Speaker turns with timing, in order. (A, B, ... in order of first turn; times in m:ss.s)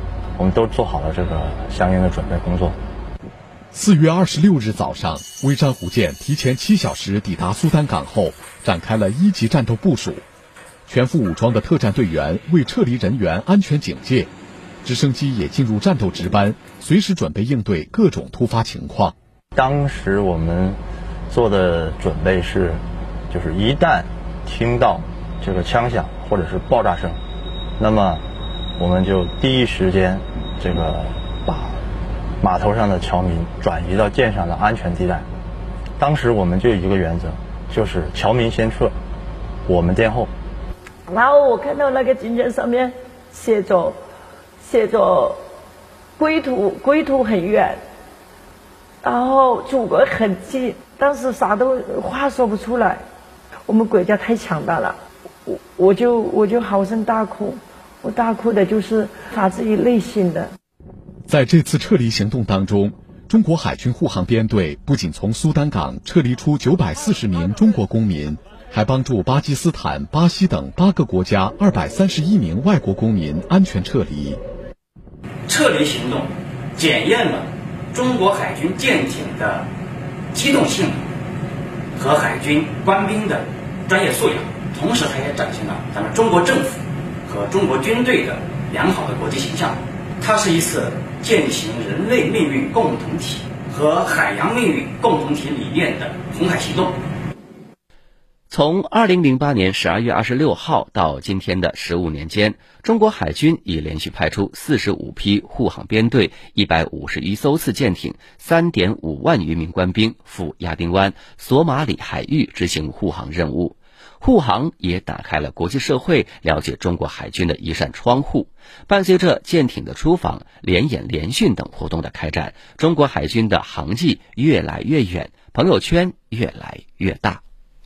0:00.4-0:02.8 A
0:03.7-0:10.2 B
0:10.9-0:14.3 B
0:14.8-0:19.1 B
0:19.5-0:27.2 A
0:27.8-0:28.2 A
0:28.8-0:31.8 A
0:32.4-0:35.3 A
0:36.0-0:38.9 A
0:39.6-0:40.3 A
0:41.1-0:44.0 C
0:44.6-0:45.4 C
0:46.2-0:47.8 C
0:49.0-0:53.0 C
0:53.7-1:00.5 C
1:01.3-1:14.4 B
1:15.5-1:19.7 D
1:20.3-1:21.0 D
1:21.9-1:36.9 D
1:38.5-2:07.4 E